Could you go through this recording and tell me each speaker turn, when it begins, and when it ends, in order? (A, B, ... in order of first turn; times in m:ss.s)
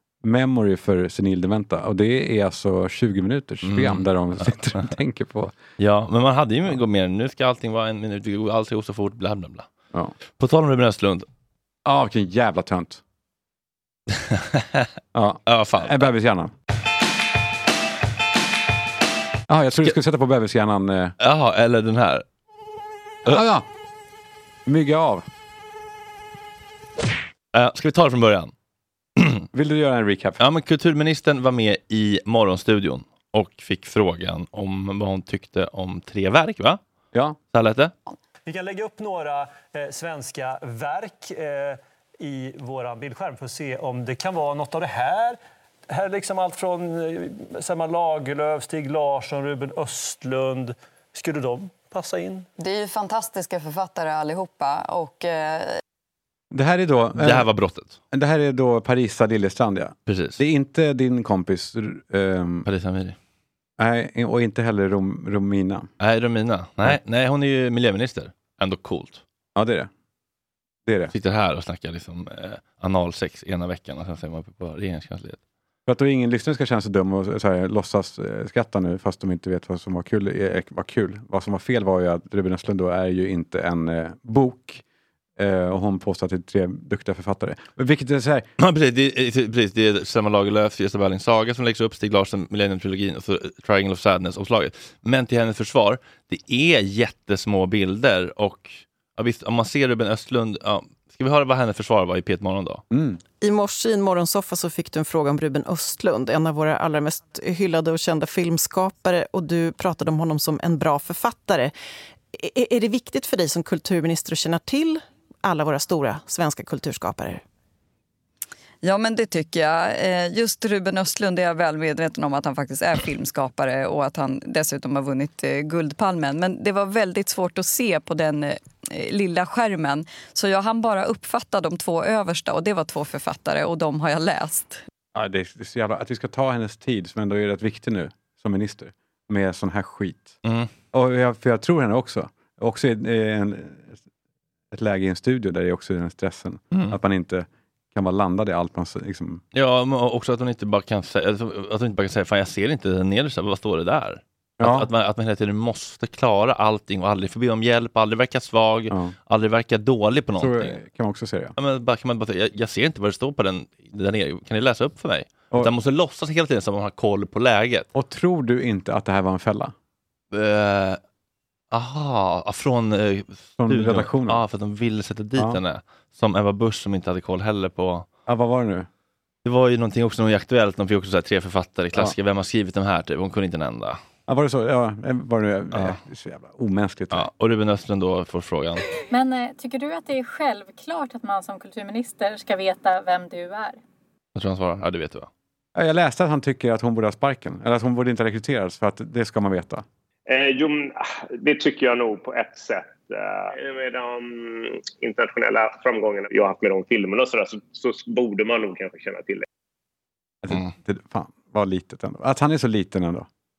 0:00.2-0:05.6 A
0:03.6-0:04.9 B
0:05.8-0:09.7 B
0:10.4-0:11.3 B
0:11.8-0:13.0 A
0:14.2-0:14.9 B
0:15.1-0:16.5 A
0:15.5-0:16.1 B
0:19.5-0:21.2 A
0:21.2-0:22.2 B
0:23.3-0:23.7 A
0:24.7-0:25.2 A
0:27.5-0:28.5 B
0:29.2-0:29.4 B
0:29.5-0:30.4 A
0:30.4-0:36.8 B
0:37.1-0:37.4 A
0:37.5-0:37.9 B
0:38.5-0:45.4 C
0:45.9-0:52.5 C
0:52.6-0:55.7 D
0:56.5-0:57.5 A
0:57.2-0:58.0 B
0:58.1-1:02.7 A
1:00.1-1:00.4 B
1:02.7-1:03.2 B
1:03.8-1:05.9 A
1:06.0-1:09.2 B
1:09.6-1:09.9 A
1:10.9-1:11.1 A
1:11.1-1:15.4 B
1:15.9-1:24.8 A
1:25.4-1:28.5 A
1:28.6-1:42.8 B
1:42.9-1:43.2 A
1:43.4-1:51.7 E
1:52.3-1:57.4 E
1:58.8-2:14.8 D
2:15.1-2:20.4 A
2:20.4-2:20.7 B
2:20.9-2:24.0 A
2:24.7-2:29.4 A
2:26.7-2:27.0 B
2:29.5-2:40.8 B
2:34.6-2:34.9 A
2:40.4-2:41.6 A
2:41.6-2:47.9 B
2:48.0-2:49.7 A
2:50.3-2:51.0 B
2:51.7-2:58.1 B
2:53.6-2:54.4 A
2:58.3-2:58.9 A
2:59.4-3:04.0 B
3:04.3-3:07.3 A
3:05.7-3:06.0 B
3:07.1-3:08.9 B
3:09.1-3:13.8 F
3:14.4-3:15.3 B
3:15.8-3:19.8 A
3:20.3-3:29.4 G
3:30.4-3:33.3 A